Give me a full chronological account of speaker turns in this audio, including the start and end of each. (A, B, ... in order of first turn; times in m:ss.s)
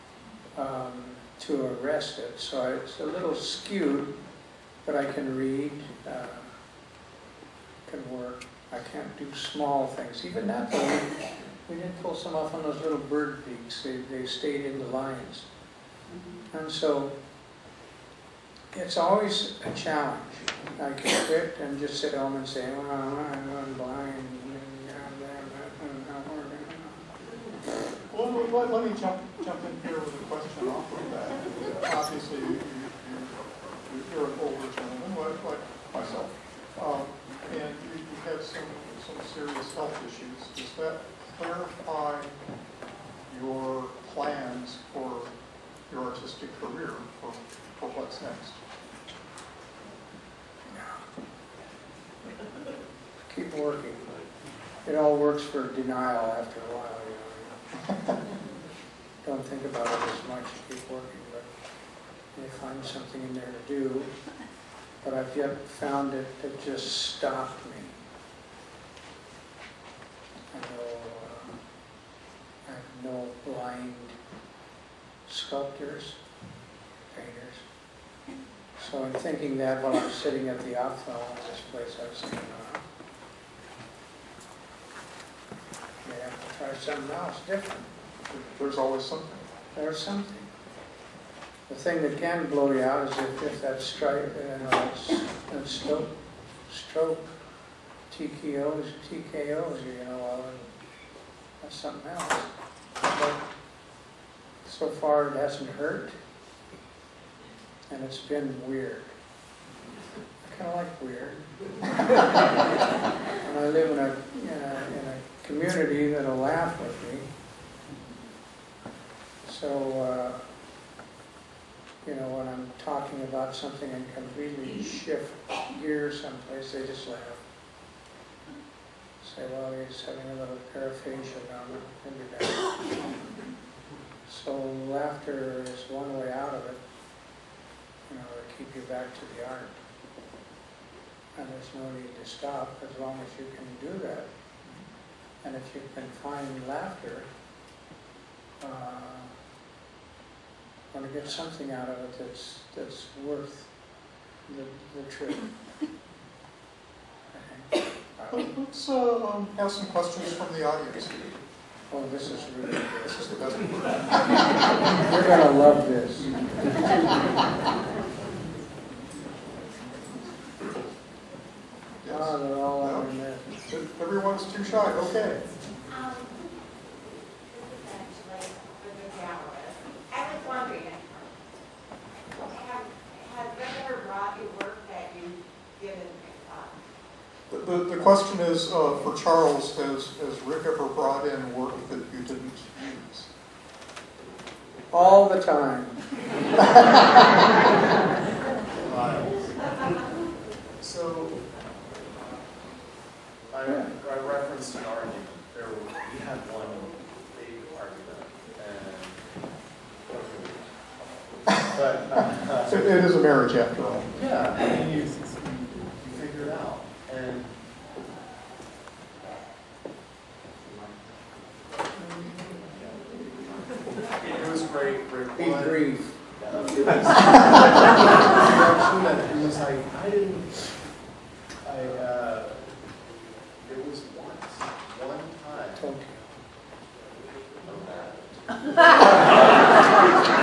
0:00.6-0:04.1 A
0:04.8-0:06.5 A
0:07.9-0:15.5 A
0:16.5-0:17.1 A
0:18.7-0:27.1 A
0:28.1-0:42.4 B
0:43.3-0:45.3 B
0:45.9-0:48.6 B
0:50.7-0:51.0 A
0:53.3-0:54.2 A
0:54.8-0:57.6 A
0:59.2-1:01.5 A
1:02.4-1:04.1 A
1:05.0-1:08.0 A
1:10.5-1:11.6 A
1:12.7-1:14.2 A
1:15.3-1:16.2 A
1:17.1-1:17.6 A
1:18.8-1:22.8 A
1:26.0-1:27.9 A
1:28.3-1:29.5 B
1:29.8-1:30.5 A
1:31.7-1:36.1 A
1:36.7-1:37.3 A
1:38.1-1:40.7 A
1:41.6-1:42.5 A
1:43.1-1:43.4 A
1:44.6-1:46.2 A
1:47.9-1:49.2 A
1:50.4-1:51.4 A
1:53.4-1:57.3 A
1:59.4-2:00.4 A
2:02.0-2:07.4 A
2:09.2-2:12.8 A
2:14.3-2:16.8 A
2:18.1-2:19.8 A
2:21.4-2:24.3 A
2:25.4-2:27.3 A
2:28.6-2:29.3 A
2:30.9-2:33.7 A
2:34.5-2:35.5 A
2:37.3-2:38.5 A
2:38.3-2:41.3 B
2:41.9-2:43.3 A
2:43.0-2:44.4 B
2:45.0-2:46.3 A
2:52.0-2:53.1 B
2:52.1-2:53.5 A
2:53.7-2:55.4 B
2:55.9-2:56.4 C
2:57.5-3:01.4 C
3:02.5-3:06.8 C
3:07.5-3:13.3 B
3:14.9-3:16.0 A
3:18.7-3:19.6 D
3:20.8-3:21.7 D
3:23.5-3:29.2 D
3:30.1-3:30.7 D
3:31.6-3:33.1 D
3:32.2-3:34.1 B
3:34.1-3:37.6 D
3:40.7-3:41.2 D
3:42.0-3:42.5 A
3:42.6-3:43.2 D
3:44.1-3:50.7 D
3:45.4-3:46.2 A
3:51.6-3:52.6 D
3:53.6-3:56.0 D
3:55.8-3:56.2 A
3:57.6-4:00.2 D